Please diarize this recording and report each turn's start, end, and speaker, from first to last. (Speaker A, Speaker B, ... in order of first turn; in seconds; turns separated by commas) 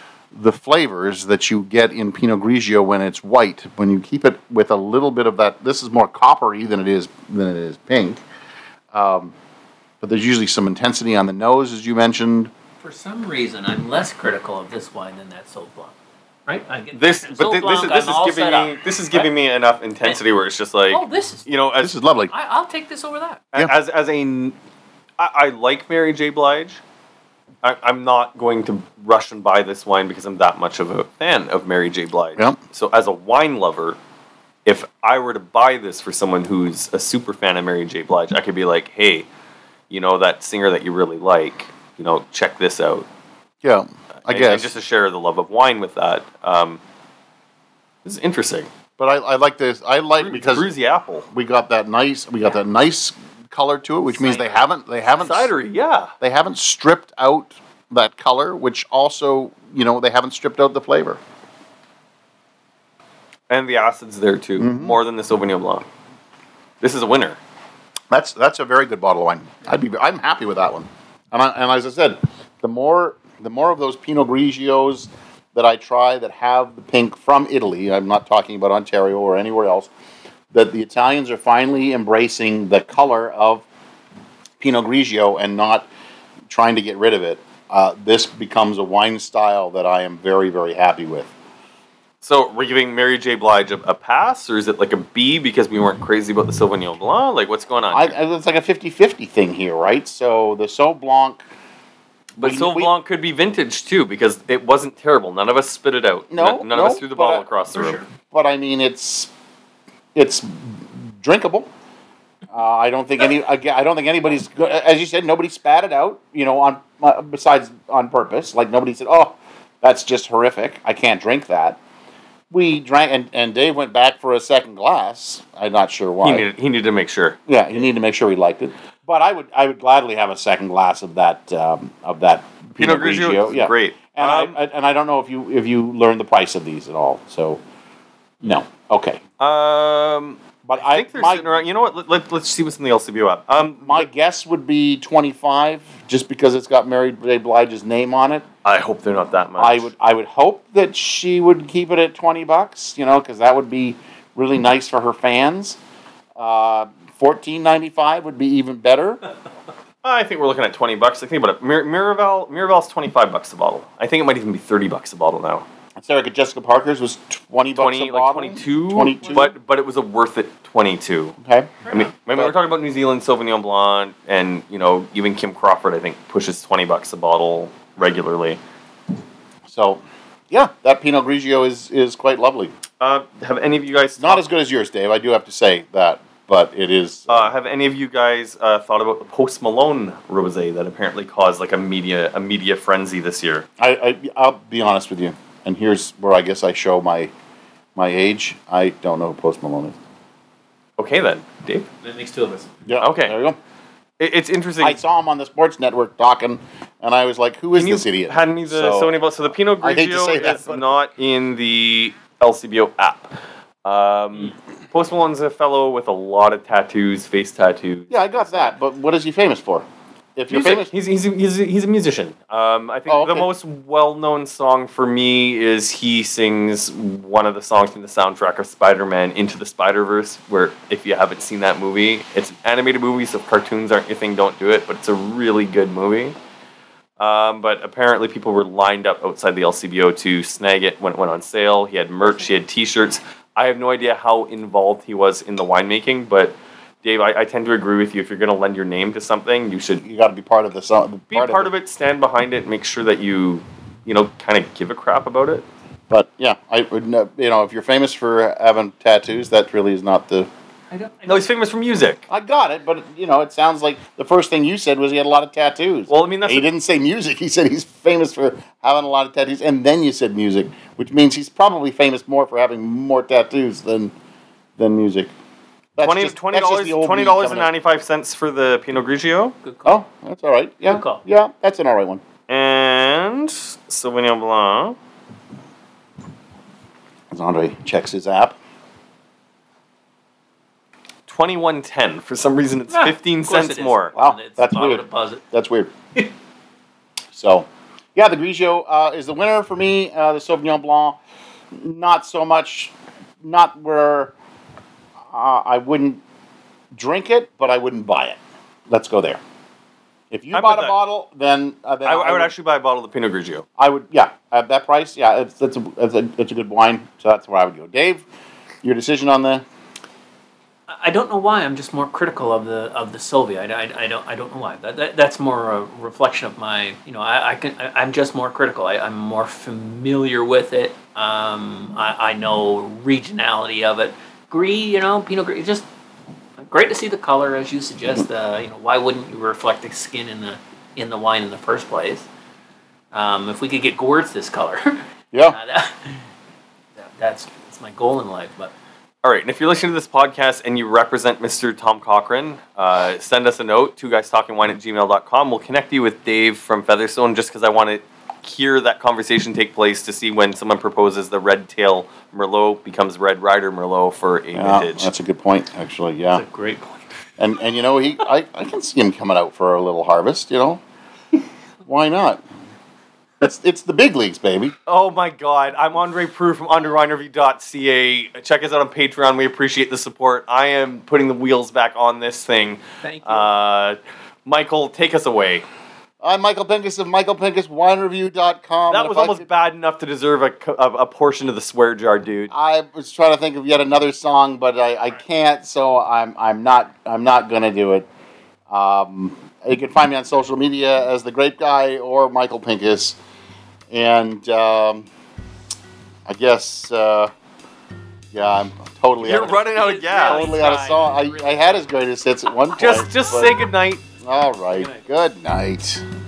Speaker A: 0.3-8.2, Speaker A: 8.9-9.3, Speaker A: 10.0-12.5, Speaker B: 12.8-15.9, Speaker B: 16.5-19.3, Speaker C: 16.9-21.9, Speaker B: 20.9-21.5, Speaker A: 21.8-22.3, Speaker B: 22.3-23.4, Speaker C: 23.5-24.6, Speaker C: 25.2-26.8, Speaker C: 27.6-34.0, Speaker C: 34.6-39.3, Speaker C: 39.9-43.1, Speaker A: 43.6-44.7, Speaker C: 44.3-46.8, Speaker C: 48.0-48.7, Speaker A: 49.0-50.7, Speaker C: 50.2-51.3, Speaker A: 51.3-55.5, Speaker B: 54.1-54.7, Speaker C: 55.1-56.1, Speaker A: 56.2-61.2, Speaker C: 63.5-65.9, Speaker A: 64.6-65.0, Speaker C: 66.8-67.4, Speaker A: 68.1-79.9, Speaker A: 80.5-83.6, Speaker A: 84.6-85.9, Speaker A: 86.5-91.3, Speaker C: 92.2-98.2, Speaker A: 97.9-101.4, Speaker C: 102.4-108.0, Speaker A: 102.4-102.9, Speaker A: 106.3-107.5, Speaker B: 107.8-108.0, Speaker A: 108.2-109.3, Speaker A: 110.2-111.7, Speaker A: 112.5-121.8, Speaker A: 122.5-126.5, Speaker C: 126.2-127.4, Speaker A: 127.5-137.6, Speaker C: 132.8-134.6, Speaker A: 138.4-139.2, Speaker C: 139.4-144.1, Speaker A: 140.6-141.5, Speaker A: 143.8-148.4, Speaker C: 148.6-149.9, Speaker A: 149.6-155.8, Speaker A: 156.4-159.2, Speaker C: 160.0-165.7, Speaker A: 166.0-169.5, Speaker C: 167.7-171.4, Speaker A: 171.4-172.6, Speaker B: 171.8-172.1, Speaker C: 171.9-178.6, Speaker A: 179.7-182.7, Speaker C: 183.0-184.5, Speaker A: 184.2-187.5, Speaker C: 187.3-193.7, Speaker A: 193.8-197.3, Speaker A: 198.0-199.9, Speaker C: 201.0-201.9, Speaker B: 202.0-202.7, Speaker A: 202.9-203.6, Speaker C: 203.0-203.4, Speaker C: 204.2-205.0, Speaker A: 204.8-209.2, Speaker C: 207.8-213.3, Speaker A: 209.7-210.9, Speaker C: 213.8-218.8, Speaker A: 218.1-220.9, Speaker C: 220.5-236.4, Speaker A: 223.1-223.5, Speaker C: 237.2-250.0, Speaker A: 250.0-251.7, Speaker C: 251.3-255.7, Speaker A: 256.1-260.5, Speaker B: 260.9-261.5, Speaker C: 261.3-262.2, Speaker A: 262.3-274.1, Speaker C: 266.1-266.7, Speaker A: 274.8-275.3, Speaker A: 276.0-277.7, Speaker C: 276.0-279.5, Speaker B: 279.6-280.0, Speaker A: 279.9-282.2, Speaker B: 280.8-281.2, Speaker C: 282.5-285.0, Speaker A: 287.3-288.6, Speaker C: 291.3-294.1, Speaker B: 292.9-295.4, Speaker A: 294.1-295.9, Speaker A: 297.3-301.2, Speaker A: 301.8-304.3, Speaker A: 305.3-306.2, Speaker A: 306.9-309.4, Speaker A: 310.3-312.5, Speaker C: 310.5-311.0, Speaker C: 312.1-313.7, Speaker A: 313.8-318.2, Speaker A: 318.8-319.6, Speaker B: 320.9-335.9, Speaker B: 336.6-342.3, Speaker B: 343.1-346.2, Speaker A: 345.3-345.6, Speaker B: 347.0-348.7, Speaker C: 349.2-365.1, Speaker A: 364.5-366.4, Speaker B: 366.3-367.0, Speaker A: 367.4-370.8, Speaker A: 371.9-372.4, Speaker A: 373.4-374.7, Speaker C: 374.9-385.7, Speaker B: 383.0-383.5, Speaker A: 386.2-389.4, Speaker C: 388.9-392.5, Speaker A: 392.5-398.1, Speaker A: 398.7-403.2, Speaker A: 403.9-405.1, Speaker A: 406.3-407.3, Speaker A: 408.3-413.6, Speaker C: 409.2-410.7, Speaker B: 409.6-411.9, Speaker C: 412.7-414.0, Speaker A: 414.2-416.0, Speaker B: 414.7-415.1